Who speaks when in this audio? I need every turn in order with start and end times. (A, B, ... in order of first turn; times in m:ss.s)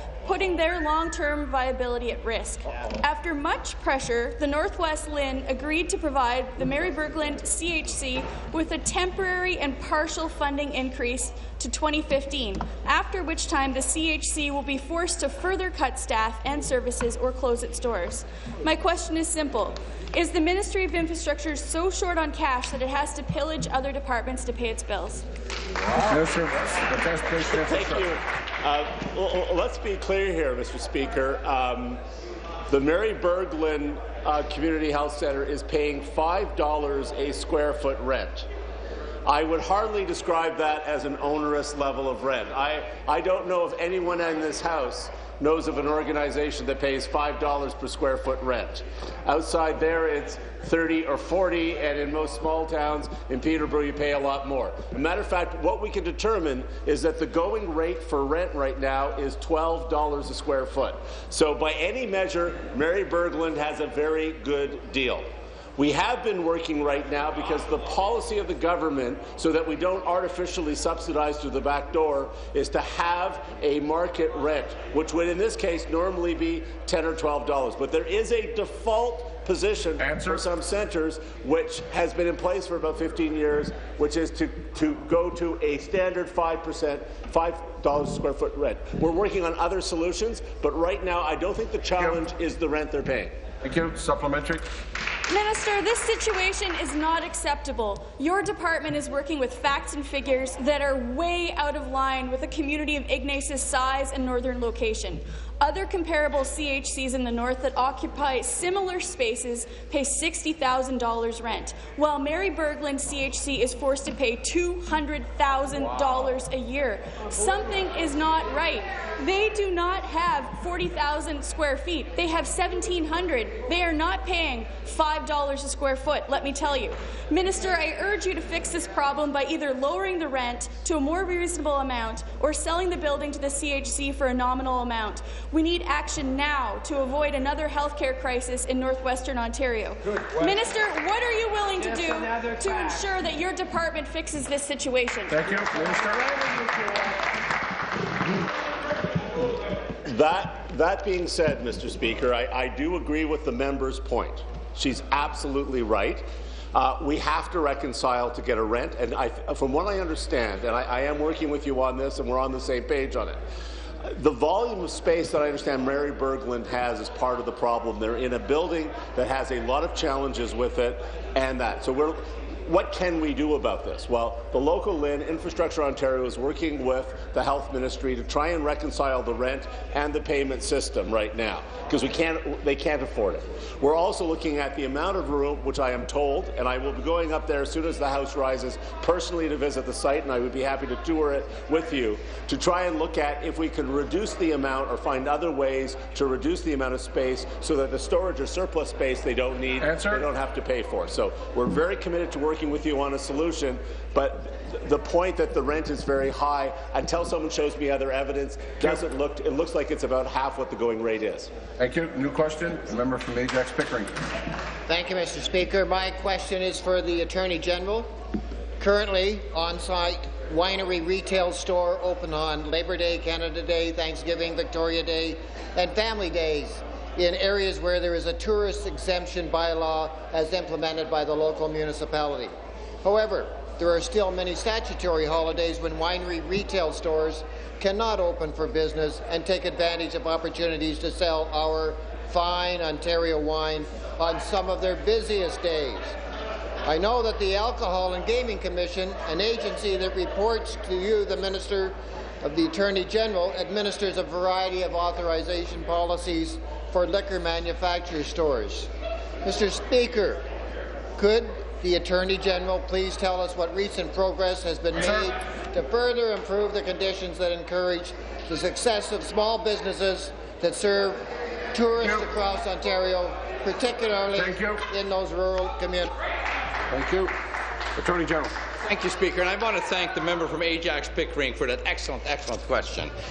0:00.2-0:25.2 A
0:25.9-0:26.2 B
0:25.9-0:28.2 C
0:27.5-0:32.0 B
0:32.7-0:38.5 B
0:39.3-1:33.3 B
1:20.0-1:20.5 C
1:33.6-1:34.6 C
1:35.3-2:25.5 A
2:25.3-2:26.3 C
2:30.1-2:43.4 B
2:44.0-3:31.5 B
3:19.8-3:20.3 C
3:31.8-3:34.1 C
3:34.9-3:38.1 D
3:38.8-4:06.1 D
4:06.8-4:18.9 D
4:19.4-4:20.4 D
4:21.2-4:31.2 D
4:25.0-4:25.3 C
4:31.7-4:36.1 D
4:34.3-4:34.8 C
4:36.9-4:37.3 C
4:38.0-4:38.5 C
4:38.8-4:43.1 E